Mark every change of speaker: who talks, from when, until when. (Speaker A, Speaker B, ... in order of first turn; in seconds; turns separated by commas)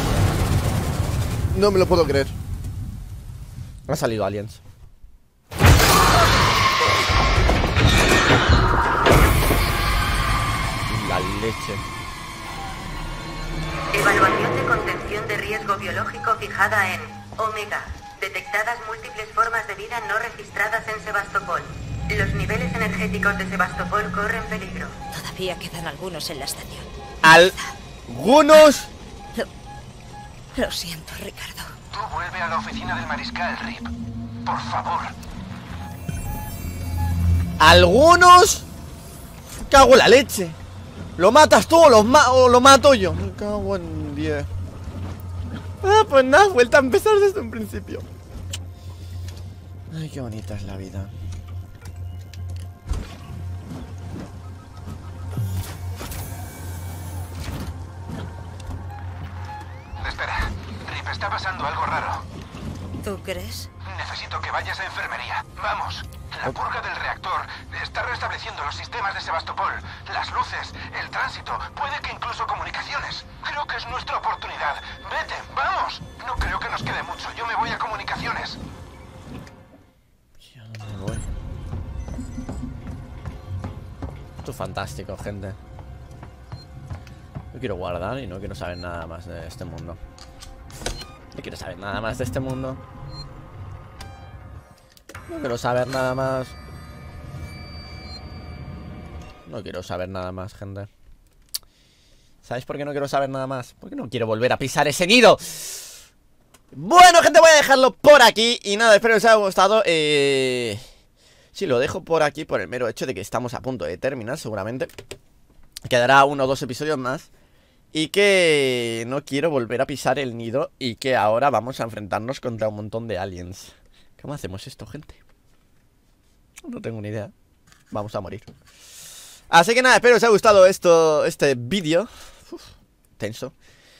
Speaker A: 1.5-2.3, Speaker A: 3.9-4.6, Speaker A: 10.9-11.8, Speaker B: 13.9-24.9, Speaker C: 25.1-26.9, Speaker A: 27.2-27.5, Speaker A: 28.1-28.9, Speaker C: 30.5-31.7, Speaker D: 31.9-33.9, Speaker D: 34.4-35.1, Speaker A: 37.6-38.6, Speaker A: 39.5-40.6, Speaker A: 41.2-44.5, Speaker A: 45.8-48.0, Speaker A: 49.9-51.1, Speaker D: 60.0-62.2, Speaker C: 63.0-63.7, Speaker D: 63.8-78.6, Speaker A: 80.4-81.3, Speaker A: 84.4-85.6, Speaker A: 87.5-90.0, Speaker A: 91.3-92.8, Speaker A: 95.3-96.5, Speaker A: 99.5-100.9, Speaker A: 102.4-105.9, Speaker A: 106.7-110.8, Speaker A: 111.5-114.9, Speaker A: 115.8-117.3, Speaker A: 117.9-125.2, Speaker A: 126.6-127.3, Speaker A: 127.9-128.5, Speaker A: 129.5-133.5